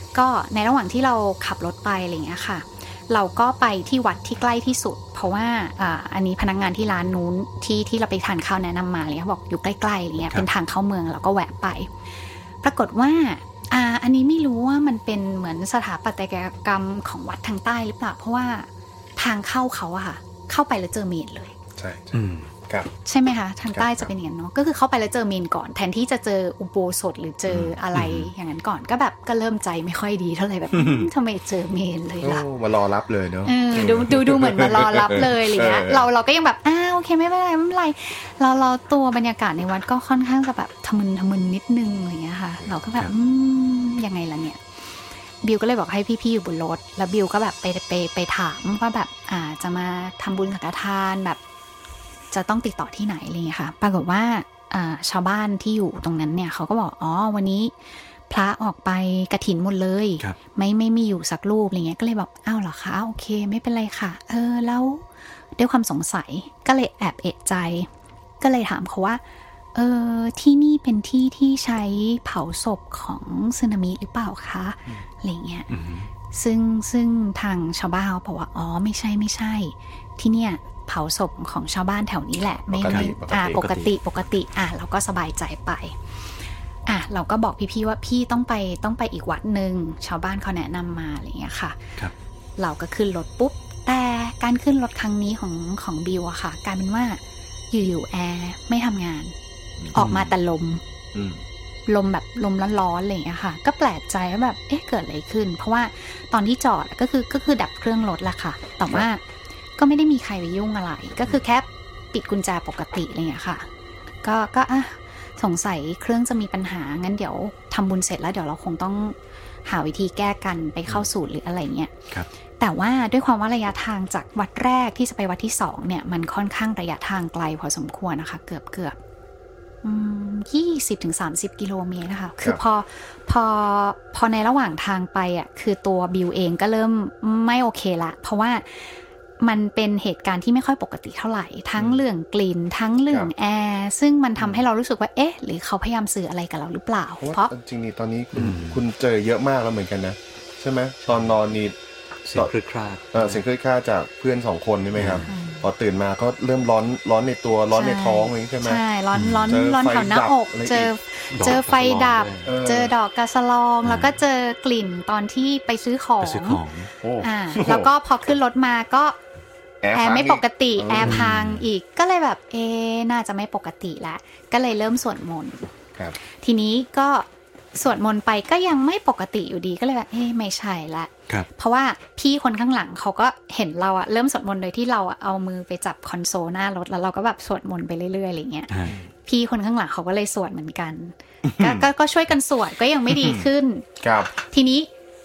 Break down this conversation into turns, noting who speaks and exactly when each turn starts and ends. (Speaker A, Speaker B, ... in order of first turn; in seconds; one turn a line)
Speaker A: 0.1-11.9
Speaker A: 12.6-21.6
Speaker B: 21.8-22.2
Speaker C: 22.1-22.5
Speaker A: 23.1-32.5
Speaker B: 23.7-24.1
Speaker C: 27.9-28.3
Speaker B: 30.7-31.1
Speaker B: 32.2-36.1
Speaker A: 33.5-44.6
Speaker A: 45.4-51.4
Speaker A: 52.3-57.7
Speaker A: 58.3-65.0
Speaker A: 65.6-67.9
Speaker A: 68.4-69.2
Speaker A: 69.8-75.7
Speaker C: 75.7-76.1
Speaker A: 76.3-86.0
Speaker B: 82.7-83.7
Speaker C: 82.9-83.9
Speaker A: 86.9-91.8
Speaker A: 92.6-97.2
Speaker A: 97.7-99.3
Speaker A: 99.9-100.8
Speaker C: 100.0-100.3
Speaker B: 101.1-101.4
Speaker A: 101.9-109.2
Speaker A: 109.8-113.7
Speaker A: 114.2-119.2
Speaker A: 119.7-121.9
Speaker A: 122.6-129.0
Speaker A: 129.8-147.5
Speaker B: 147.2-151.8
Speaker C: 148.3-148.8
Speaker C: 152.3-153.4
Speaker B: 153.1-158.8
Speaker C: 155.0-155.3
Speaker A: 155.3-155.6
Speaker A: 157.7-166.6
Speaker C: 159.1-159.6
Speaker B: 159.5-160.9
Speaker C: 161.3-162.5
Speaker B: 162.4-162.9
Speaker C: 163.8-164.1
Speaker C: 166.2-166.9
Speaker B: 167.0-167.9
Speaker A: 167.2-169.2
Speaker B: 169.8-171.2
Speaker A: 169.9-175.7
Speaker C: 171.0-171.7
Speaker A: 176.4-188.7
Speaker C: 188.7-189.0
Speaker A: 189.3-194.9
Speaker B: 191.4-191.9
Speaker B: 193.1-193.5
Speaker B: 194.0-194.3